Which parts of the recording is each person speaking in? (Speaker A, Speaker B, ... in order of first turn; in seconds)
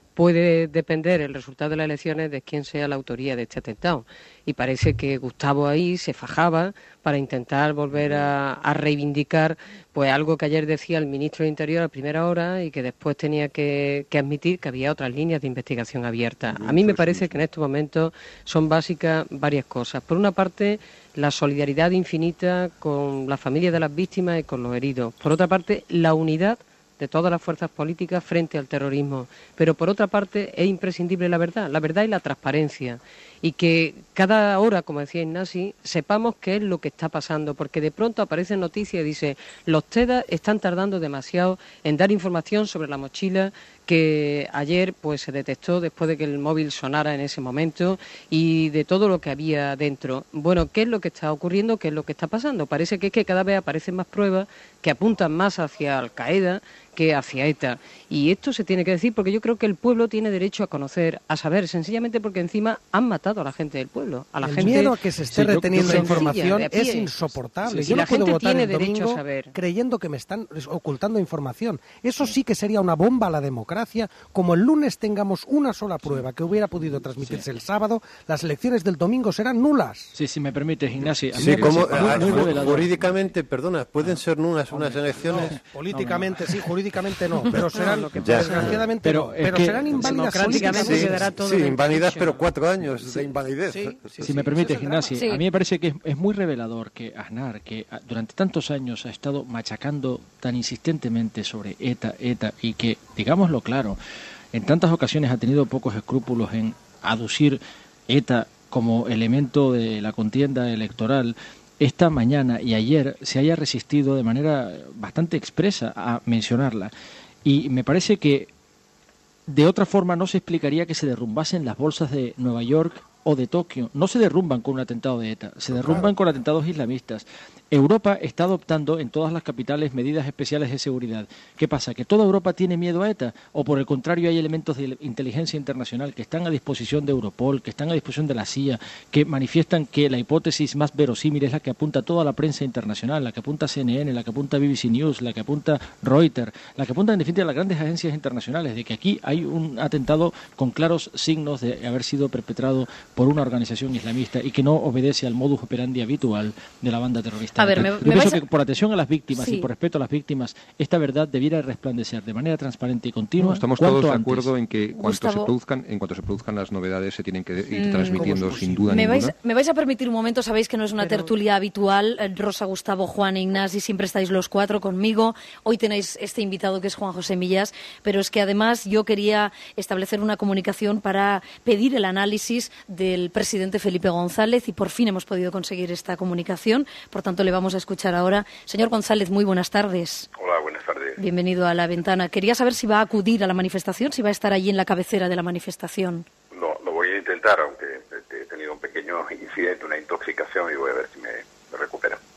Speaker A: 0.1-65.0, 65.5-69.5, 87.7-88.8, 90.0-92.4, 171.0-171.3
Speaker B: 16.6-17.4, 81.3-83.2, 163.4-169.3
Speaker C: 64.4-80.1, 85.0-91.3, 93.2-95.2, 168.2-168.8
Speaker D: 65.3-66.3, 67.7-67.9, 77.2-77.5, 80.2-83.2, 84.7-85.0, 85.9-86.7, 89.0-91.1, 94.2-104.0, 104.5-116.9, 117.5-118.5, 119.5-164.5
Speaker E: 81.4-85.6, 88.2-88.9, 90.7-94.3, 125.7-126.1
Speaker F: 95.1-95.4, 157.6-158.4, 159.3-159.7, 165.0-165.5, 167.8-190.3, 191.2-196.3
Speaker G: 190.4-191.2, 196.5-202.2